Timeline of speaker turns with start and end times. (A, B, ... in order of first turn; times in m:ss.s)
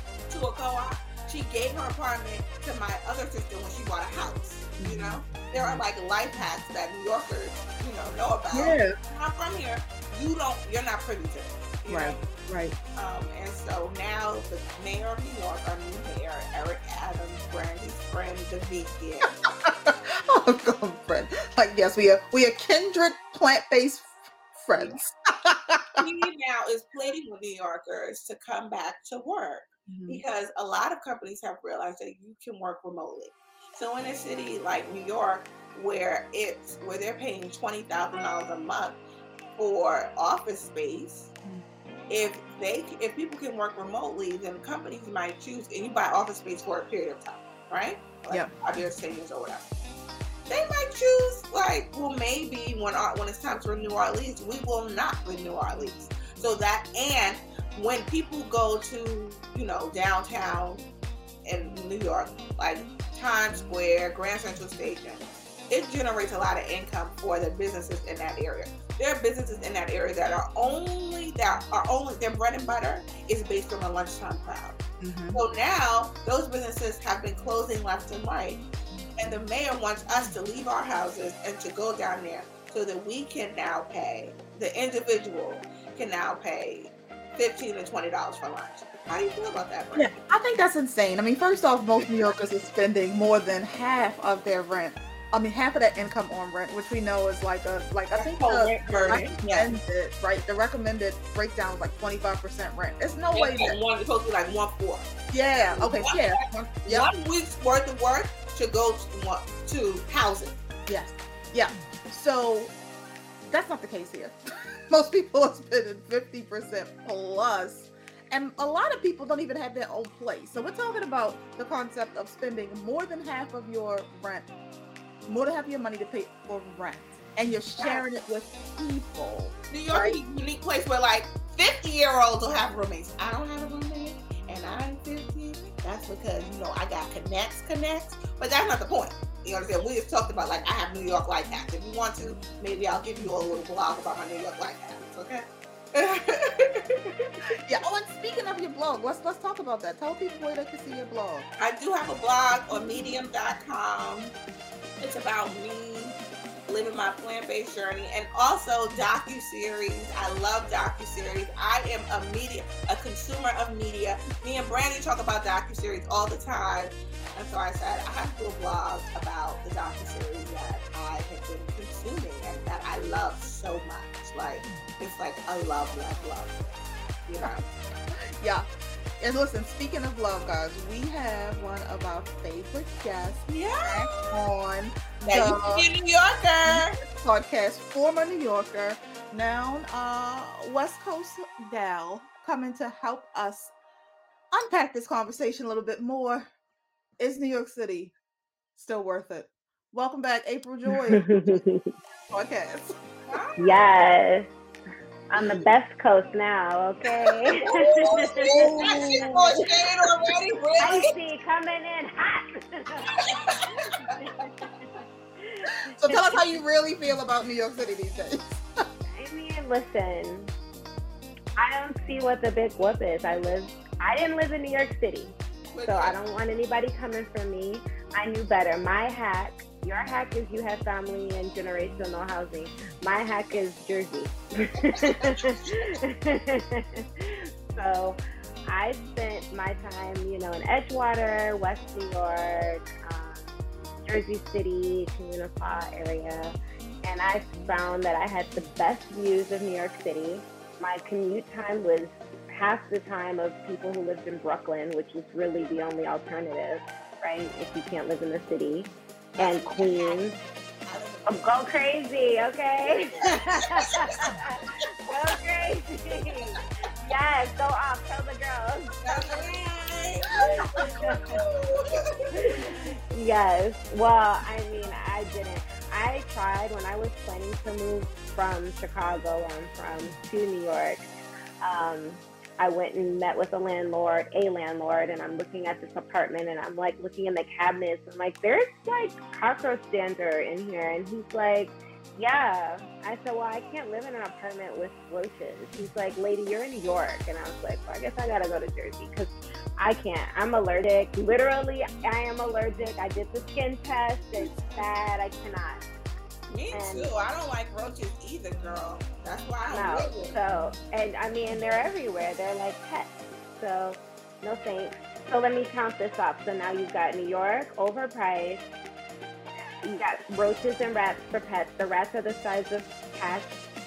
0:00.3-0:12.2 A
0:04.8-0:05.8 B
0:08.5-0:08.9 B
0:11.9-0:12.8 B
0:12.9-0:19.3 A
0:19.6-0:26.0 B
0:24.7-0:25.0 A
0:26.0-0:39.0 A
0:29.9-0:30.2 B
0:39.6-0:41.3 A
0:42.1-0:49.7 A
0:50.5-1:00.8 A
1:01.4-1:14.8 A
1:15.0-1:15.4 B
1:15.3-1:18.6 A
1:19.2-1:30.1 A
1:29.9-1:43.8 B
1:38.2-1:39.7 A
1:43.3-1:45.1 A
1:45.3-1:47.0 B
1:45.7-1:46.3 A
1:46.8-1:50.6 A
1:50.9-1:52.7 B
1:53.4-1:54.4 B
1:54.9-2:04.5 B
2:05.3-2:10.2 B
2:09.7-2:27.3 A
2:27.6-2:31.4 B
2:31.6-2:34.3 A
2:35.0-2:57.6 A
2:58.1-2:58.7 B
2:59.2-3:05.8 B
3:03.5-3:04.4 A
3:05.2-3:07.0 A
3:06.6-3:13.7 B
3:14.5-3:16.5 B
3:17.2-3:18.1 B
3:18.8-3:21.6 B
3:21.2-3:21.8 C
3:22.3-3:22.9 B
3:23.3-3:23.9 A
3:23.6-3:24.5 C
3:25.3-3:29.6 C
3:27.2-3:31.1 A
3:28.4-3:29.0 B
3:30.8-3:34.7 C
3:33.2-3:33.6 A
3:35.4-3:36.2 C
3:36.0-3:38.6 B
3:39.1-3:40.5 C
3:41.6-4:03.5 C
3:45.7-3:46.2 A
4:04.0-4:20.3 C
4:19.4-4:21.5 A
4:21.3-4:29.4 C
4:23.1-4:24.8 A
4:29.0-4:32.1 A
4:30.4-4:31.4 C
4:31.0-4:31.8 B
4:32.3-4:41.0 C
4:41.6-5:05.8 C
5:06.5-5:10.4 A
5:06.7-5:07.1 C
5:09.7-5:18.6 C
5:19.8-5:23.5 C